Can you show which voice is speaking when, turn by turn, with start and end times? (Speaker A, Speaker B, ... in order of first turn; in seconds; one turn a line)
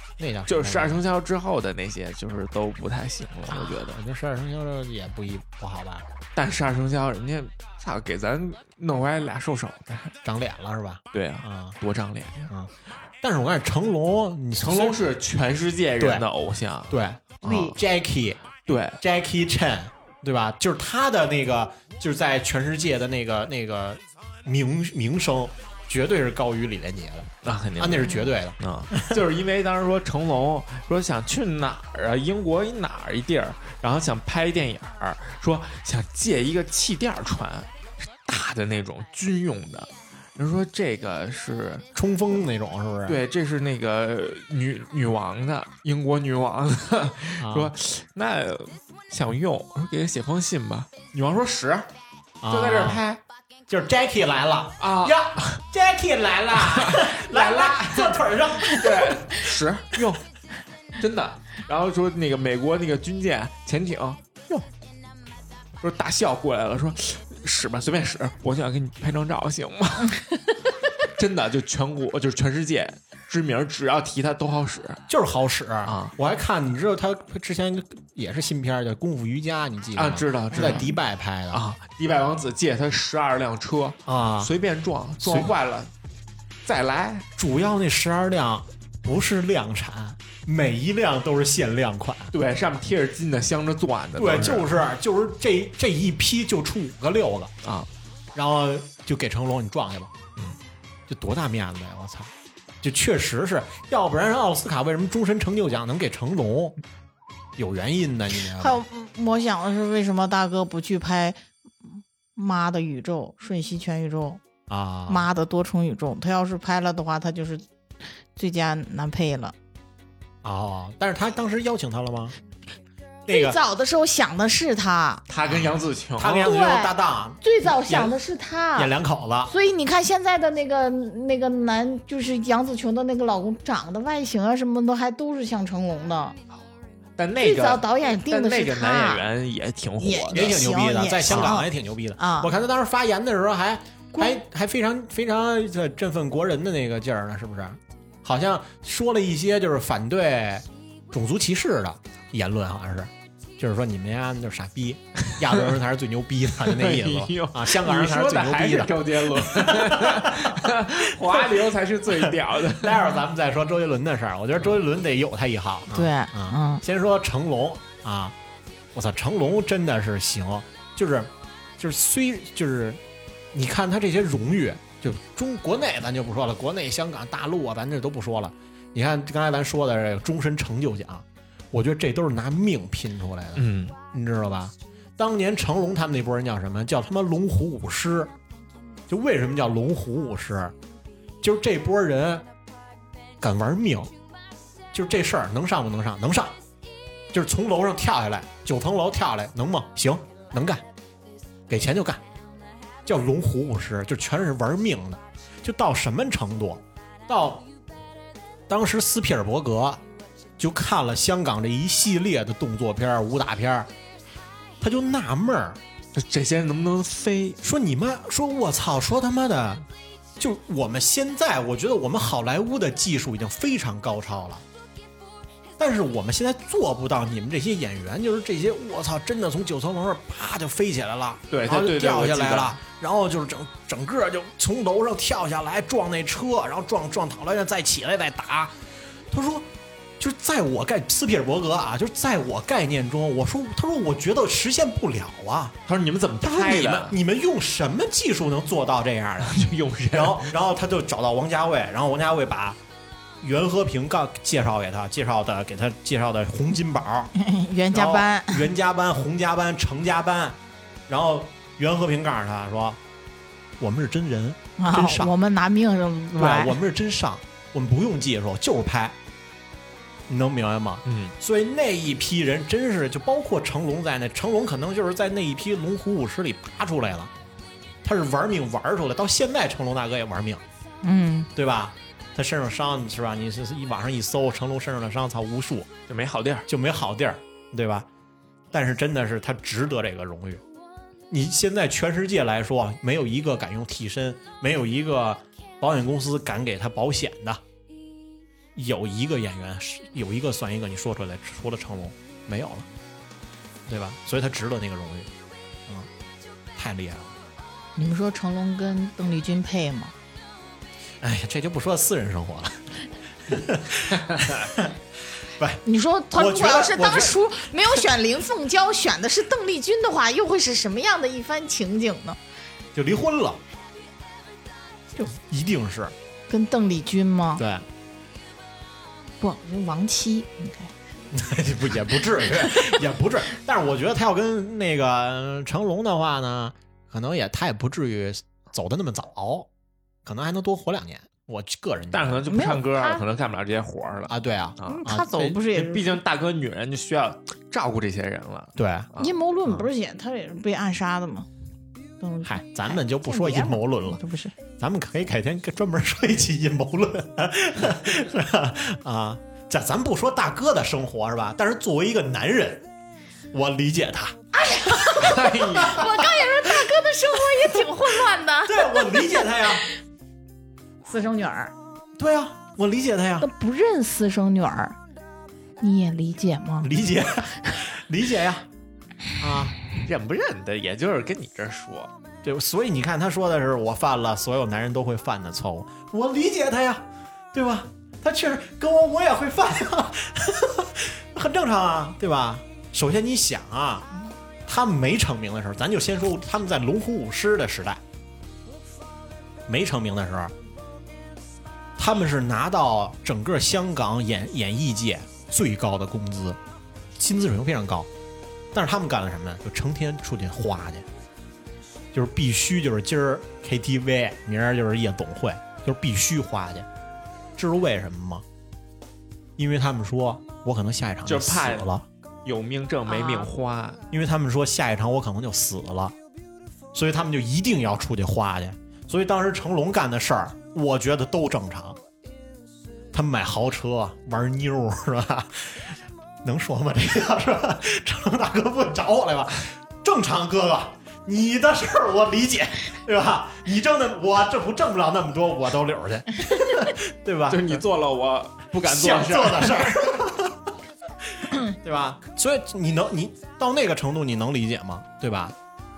Speaker A: 0.2-1.0
Speaker B: 0.5-4.0
Speaker A: 3.5-6.1
Speaker B: 6.3-10.2
Speaker A: 10.2-11.8
Speaker B: 11.1-12.5
Speaker A: 12.5-15.0
Speaker B: 14.6-17.8
Speaker A: 16.0-16.2
Speaker A: 16.9-18.4
Speaker B: 18.7-19.0
Speaker A: 19.0-29.2
Speaker B: 27.4-41.9
Speaker A: 42.0-43.2
Speaker B: 43.1-51.9
Speaker A: 47.4-47.7
Speaker A: 52.4-53.0
Speaker B: 52.5-53.2
Speaker A: 53.7-59.2
Speaker B: 54.8-55.6
Speaker B: 56.5-60.2
Speaker B: 61.0-64.7
Speaker B: 65.8-70.2
Speaker B: 71.0-75.0
Speaker A: 75.1-81.6
Speaker B: 75.8-76.1
Speaker B: 80.0-80.9
Speaker C: 80.6-80.9
Speaker B: 81.5-85.9
Speaker A: 84.1-84.5
Speaker A: 85.2-85.5
Speaker B: 86.7-87.3
Speaker A: 87.4-92.3
Speaker B: 92.3-94.7
Speaker A: 94.2-97.5
Speaker B: 97.6-97.9
Speaker A: 98.3-100.1
Speaker A: 101.1-106.8
Speaker A: 107.6-108.8
Speaker C: 108.6-114.4
Speaker A: 114.7-115.3
Speaker C: 115.1-117.7
Speaker C: 118.3-119.5
Speaker A: 120.4-122.4
Speaker A: 123.3-123.6
Speaker C: 123.3-125.2
Speaker B: 125.3-126.4
Speaker A: 125.4-128.2
Speaker C: 126.3-128.9
Speaker A: 128.8-129.5
Speaker C: 129.5-136.4
Speaker B: 137.2-140.5
Speaker C: 137.4-139.2
Speaker C: 140.0-142.5
Speaker A: 140.3-161.6
Speaker B: 141.3-141.5
Speaker C: 144.1-144.4
Speaker B: 156.7-163.0
Speaker A: 162.1-168.3
Speaker C: 165.9-166.8
Speaker A: 168.9-173.0
Speaker A: 173.5-188.3
Speaker B: 183.6-183.9
Speaker A: 189.1-190.8
Speaker A: 191.4-192.5
Speaker A: 193.4-194.1
Speaker A: 194.9-196.6
Speaker A: 197.3-200.8
Speaker A: 201.7-202.2
Speaker A: 203.1-207.7
Speaker A: 208.7-210.0
Speaker A: 210.6-213.9
Speaker A: 214.8-215.8
Speaker B: 216.2-217.6
Speaker A: 217.6-219.9
Speaker A: 220.4-224.6
Speaker A: 225.8-238.8
Speaker B: 231.5-232.8
Speaker A: 239.3-239.7
Speaker A: 240.2-245.8
Speaker B: 245.9-247.2
Speaker A: 246.4-252.8
Speaker B: 249.4-250.5
Speaker A: 253.4-257.3
Speaker C: 257.4-258.7
Speaker A: 257.9-263.0
Speaker A: 263.8-265.3
Speaker C: 264.8-266.8
Speaker A: 266.3-269.2
Speaker A: 270.3-277.3
Speaker B: 271.1-271.4
Speaker A: 278.0-280.6
Speaker C: 281.0-281.5
Speaker A: 281.6-285.9
Speaker B: 286.1-286.7
Speaker A: 286.7-288.1
Speaker A: 288.7-290.6
Speaker A: 291.3-297.6
Speaker A: 298.8-302.9
Speaker A: 303.9-305.3
Speaker A: 306.8-307.4
Speaker C: 308.0-310.1
Speaker A: 311.2-312.8
Speaker A: 313.5-315.8
Speaker C: 315.9-322.4
Speaker A: 316.3-317.4
Speaker A: 322.9-323.6
Speaker A: 325.2-326.1
Speaker C: 326.5-327.6
Speaker A: 327.6-327.9
Speaker C: 329.4-330.9
Speaker A: 331.3-339.7
Speaker A: 340.2-342.5
Speaker B: 342.1-349.3
Speaker C: 342.5-343.2
Speaker A: 344.3-345.5
Speaker C: 344.9-346.1
Speaker A: 348.8-349.1
Speaker C: 349.2-351.5
Speaker C: 352.2-354.5
Speaker A: 352.4-354.2
Speaker A: 354.8-362.9
Speaker A: 363.5-364.4
Speaker C: 364.5-369.7
Speaker B: 365.2-366.0
Speaker A: 365.8-366.1
Speaker A: 367.6-368.1
Speaker A: 368.7-369.9
Speaker C: 371.1-371.7
Speaker A: 372.2-373.5
Speaker C: 373.4-375.0
Speaker C: 375.8-376.9
Speaker A: 376.8-378.7
Speaker A: 379.4-379.8
Speaker B: 380.0-382.1
Speaker A: 382.4-394.1
Speaker A: 394.7-398.0
Speaker A: 399.7-400.5
Speaker A: 402.0-406.6
Speaker A: 407.2-408.1
Speaker A: 408.7-411.1
Speaker A: 412.1-416.9
Speaker A: 417.6-418.4
Speaker A: 419.6-422.1
Speaker B: 421.2-421.9
Speaker B: 422.4-424.0
Speaker C: 423.1-423.5
Speaker A: 424.1-426.2
Speaker A: 426.9-432.0
Speaker A: 433.1-447.8
Speaker B: 447.5-450.2
Speaker A: 448.8-450.7
Speaker A: 451.3-455.6